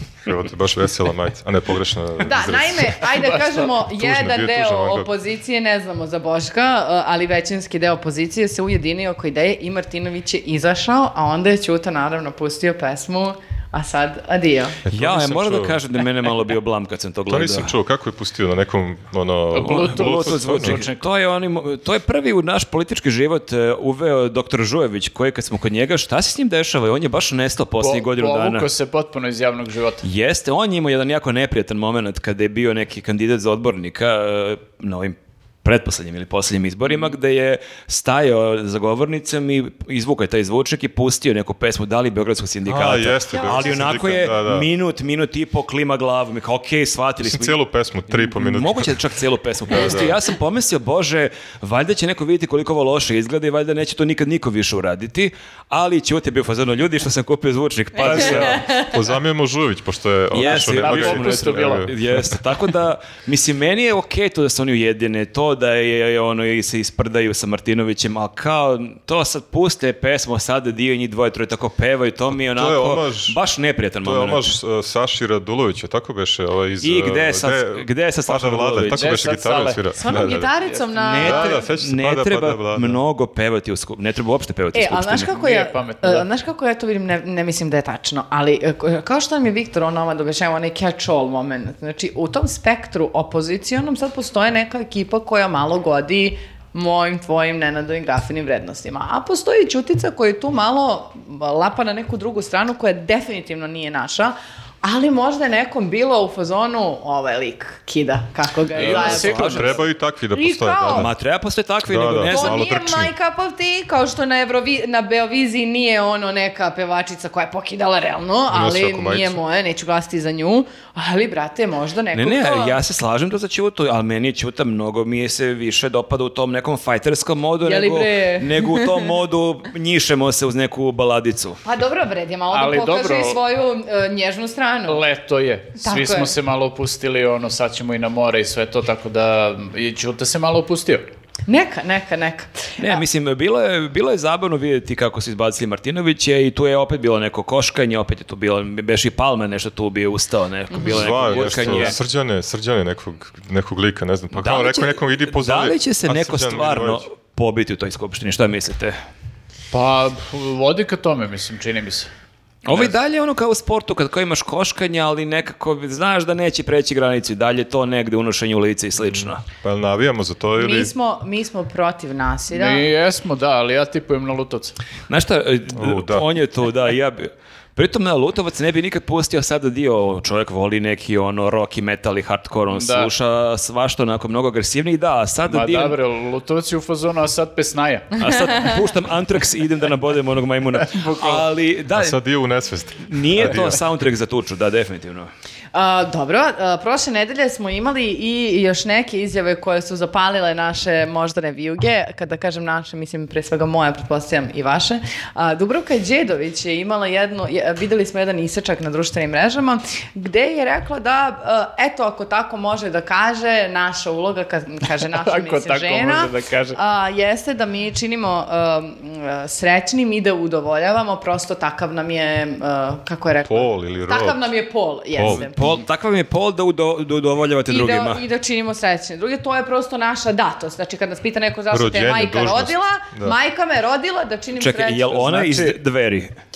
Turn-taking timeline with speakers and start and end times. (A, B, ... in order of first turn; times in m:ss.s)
0:00.2-0:05.1 A
0:02.2-0:14.8 B
0:03.1-0:03.4 C
0:14.8-0:15.8 A
0:14.9-0:17.7 D
0:17.3-0:20.8 A
0:19.5-0:21.1 C
0:19.6-0:28.7 D
0:27.8-0:30.0 C
0:30.0-0:47.6 D
0:42.6-0:44.7 A
0:43.3-0:43.9 B
0:47.2-0:49.0 A
0:48.2-0:58.7 D
0:49.7-0:50.2 A
0:58.0-1:02.4 A
0:58.2-0:58.5 C
0:58.5-0:58.9 B
1:00.3-1:14.5 D
1:00.4-1:01.9 C
1:12.5-1:13.4 A
1:14.0-1:20.5 A
1:16.8-1:19.2 D
1:18.9-1:21.5 C
1:20.0-1:21.6 B
1:21.0-1:25.3 D
1:21.2-1:23.0 A
1:24.7-1:49.8 B
1:25.3-1:26.3 C
1:48.7-1:49.9 C
1:48.8-1:49.8 D
1:49.2-1:51.1 A
1:50.3-1:51.1 B
1:50.9-1:52.7 D
1:51.9-1:53.1 A
1:52.3-2:02.8 B
1:58.5-1:59.4 A
2:02.1-2:11.6 D
2:07.6-2:09.1 B
2:11.6-2:15.0 B
2:12.5-2:13.4 C
2:14.9-2:21.1 C
2:15.8-2:16.3 B
2:21.5-2:23.0 B
2:22.8-2:32.0 D
2:30.8-2:37.1 A
2:31.2-2:32.0 C
2:34.3-2:39.0 D
2:39.7-2:42.1 C
2:42.6-2:49.4 D
2:42.7-2:43.0 C
2:49.2-2:50.9 A
2:50.6-2:52.9 B
2:52.5-2:54.8 C
2:55.1-3:06.0 D
2:55.7-2:56.2 A
3:02.7-3:03.1 C
3:05.5-3:08.2 C
3:08.2-3:12.2 D
3:10.8-3:11.5 C
3:11.9-3:13.8 A
3:13.1-3:15.3 D
3:15.7-3:45.6 B
3:35.1-3:36.8 C
3:43.5-3:44.5 A
3:45.1-3:45.5 A
3:45.2-3:48.2 D
3:47.7-3:55.3 B
3:51.7-3:53.4 A
3:54.6-3:56.4 D
3:55.1-3:55.8 C